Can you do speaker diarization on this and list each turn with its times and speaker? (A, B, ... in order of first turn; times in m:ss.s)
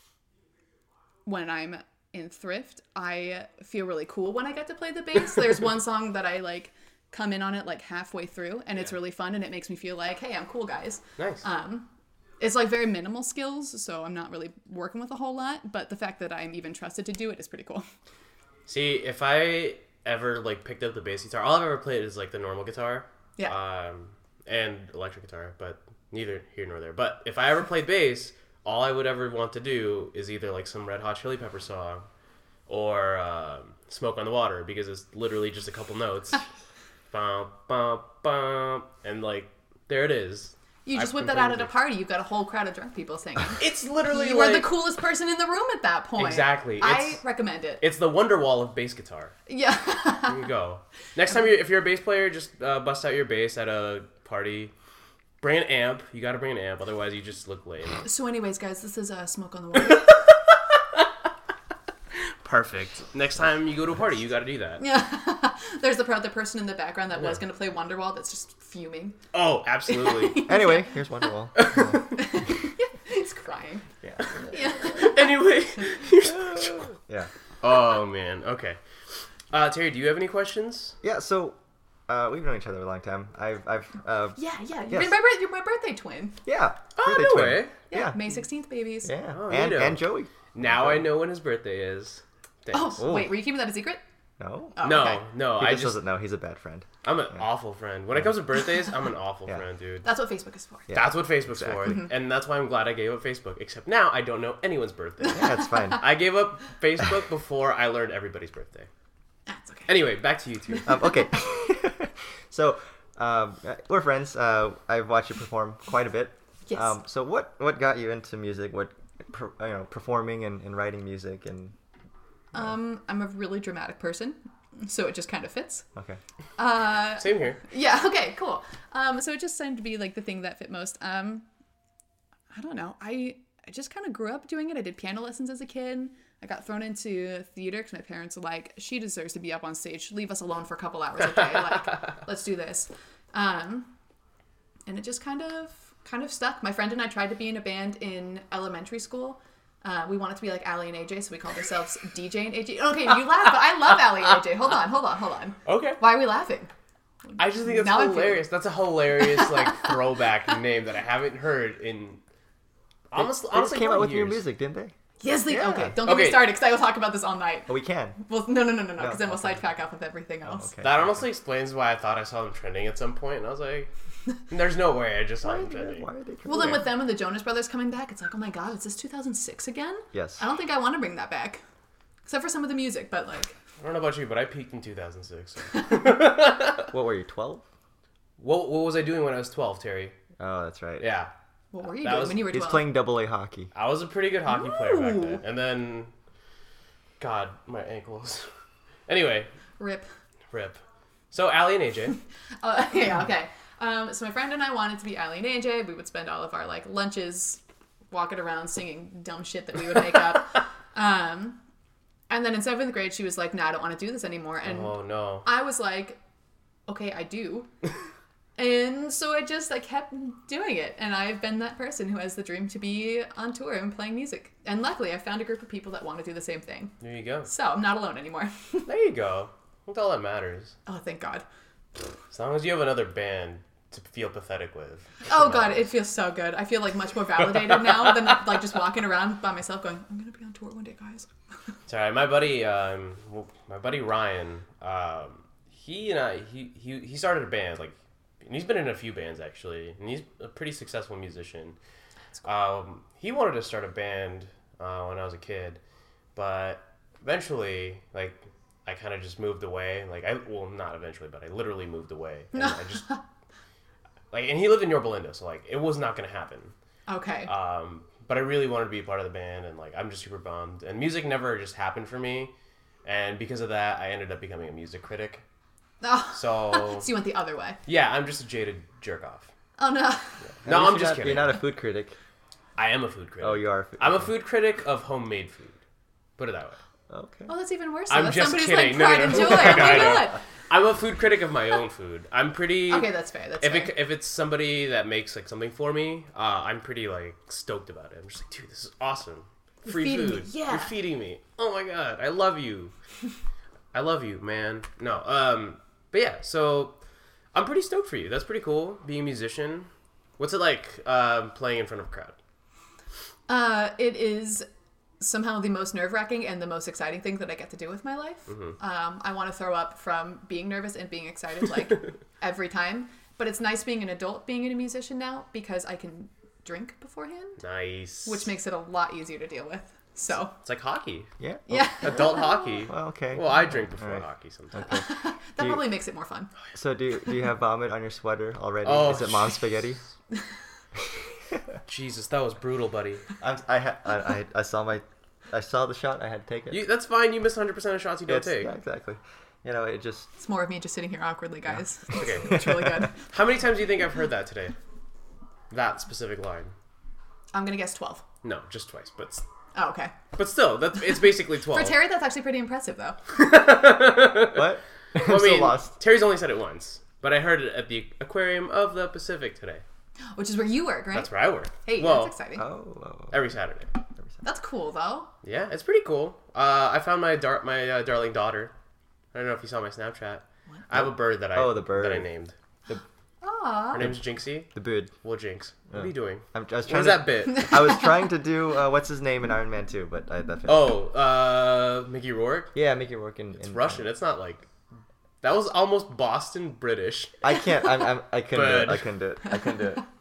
0:01.3-0:11.9 A
0:11.2-0:11.4 B
0:12.4-0:17.9 A
0:18.7-0:32.0 B
0:32.7-0:36.4 B
0:37.1-0:41.7 B
0:40.9-0:47.8 A
0:43.6-0:44.7 B
0:46.2-0:47.2 B
0:47.8-0:49.3 B
0:49.5-0:50.4 A
0:50.3-0:54.7 B
0:55.4-0:58.1 B
0:58.0-1:00.1 A
0:59.9-1:00.2 B
1:02.4-1:04.8 B
1:04.8-1:09.2 A
1:09.3-1:10.5 B
1:09.9-1:11.0 A
1:10.4-1:12.0 C
1:11.6-1:12.1 B
1:12.2-1:13.8 A
1:14.0-1:14.4 C
1:14.5-1:15.2 A
1:14.8-1:16.9 B
1:16.3-1:17.3 C
1:17.6-1:18.8 B
1:19.5-1:21.0 B
1:21.0-1:21.6 C
1:22.1-1:25.2 C
1:24.4-1:26.4 A
1:26.5-1:28.3 C
1:27.0-1:27.8 B
1:27.9-1:29.1 A
1:29.0-1:31.1 C
1:29.3-1:33.1 B
1:32.7-1:34.0 A
1:33.0-1:33.4 C
1:34.4-1:34.8 C
1:34.8-1:35.2 A
1:34.8-1:36.0 B
1:35.6-1:37.4 C
1:37.0-1:40.1 B
1:40.0-1:40.9 A
1:40.9-1:42.0 C
1:40.9-1:48.9 B
1:45.3-1:46.0 A
1:45.3-1:46.0 C
1:49.5-1:49.9 A
1:49.9-1:51.0 B
1:50.8-2:01.8 C
1:56.7-1:57.0 A
2:02.5-2:05.8 A
2:06.0-2:06.2 C
2:06.6-2:11.5 A
2:07.2-2:07.6 B
2:12.5-2:23.9 A
2:24.9-2:36.7 A
2:35.6-2:36.0 B
2:37.3-2:38.5 A
2:37.4-2:42.2 B
2:39.2-2:40.0 A
2:43.1-2:44.4 B
2:43.2-2:44.9 C
2:45.2-2:50.7 A
2:45.5-2:46.0 C
2:46.0-2:46.6 B
2:47.7-2:48.2 C
2:49.0-2:49.6 C
2:50.5-2:51.2 C
2:50.8-2:53.9 B
2:54.5-2:56.1 B
2:55.4-2:56.8 C
2:56.5-3:01.6 A
3:00.1-3:00.4 C
3:02.3-3:03.6 A
3:03.8-3:06.9 B
3:06.9-3:07.6 C
3:08.4-3:10.2 B
3:10.4-3:11.1 C
3:11.0-3:11.3 B
3:11.7-3:12.9 A
3:12.0-3:12.5 B
3:12.4-3:13.7 C
3:13.7-3:16.1 B
3:14.5-3:15.4 A
3:17.2-3:18.5 B
3:19.1-3:19.5 B
3:19.8-3:20.1 A
3:20.5-3:22.2 B
3:22.6-3:27.6 A
3:28.1-3:31.6 A
3:32.3-3:36.2 A
3:34.6-3:35.5 B
3:36.9-3:37.7 A
3:38.6-3:48.9 A
3:47.0-3:47.5 B
3:48.9-3:50.8 B
3:50.9-3:51.4 A
3:52.3-3:55.8 B
3:55.3-4:01.3 A
4:01.9-4:11.8 B
4:12.4-4:15.8 B
4:16.4-4:23.1 B
4:22.5-4:23.2 A
4:24.3-4:26.7 B
4:27.1-4:27.5 A
4:27.5-4:32.5 B
4:33.0-4:35.4 B
4:36.0-4:37.8 A
4:36.3-4:37.1 B
4:37.9-4:39.5 B
4:39.8-4:40.4 A
4:40.6-4:41.6 B
4:40.6-4:42.2 C
4:42.8-4:45.8 B
4:43.4-4:44.3 C
4:46.4-4:46.8 B
4:47.1-4:47.5 C
4:47.5-4:50.4 A
4:48.1-5:02.9 B
4:52.9-4:53.9 A
4:59.8-5:00.9 A
5:03.9-5:07.0 B
5:07.5-5:12.4 B
5:13.5-5:14.7 A
5:15.2-5:27.6 A
5:18.5-5:18.8 B
5:27.6-5:28.5 B
5:28.2-5:30.6 A
5:30.6-5:34.9 B
5:31.4-5:32.0 C
5:31.7-5:32.8 A
5:32.9-5:35.1 C
5:34.8-5:36.5 A
5:35.6-5:35.8 C
5:36.8-5:40.0 C
5:38.8-5:39.8 B
5:41.9-5:43.2 B
5:43.4-5:46.8 C
5:46.7-5:48.7 B
5:48.3-5:50.3 C
5:50.4-5:53.2 A
5:52.1-5:54.8 B
5:52.5-5:53.0 C
5:55.7-5:56.7 B
5:57.5-5:58.2 A
5:58.4-5:59.4 B
5:59.8-6:00.1 A
6:00.3-6:02.0 B
6:01.7-6:03.2 A
6:03.3-6:09.8 B
6:04.5-6:05.9 C
6:10.4-6:12.6 A
6:11.1-6:12.3 B
6:12.6-6:13.4 C
6:13.3-6:13.9 B
6:14.4-6:15.3 A
6:15.4-6:18.7 B
6:19.3-6:22.6 B
6:20.9-6:22.3 C
6:23.4-6:24.0 A
6:23.9-6:27.9 B
6:24.7-6:25.1 C
6:25.9-6:31.0 C
6:30.7-6:32.7 B
6:32.8-6:34.1 C
6:33.6-6:34.7 B
6:35.4-6:37.4 B
6:37.4-6:40.0 C
6:38.5-6:39.1 B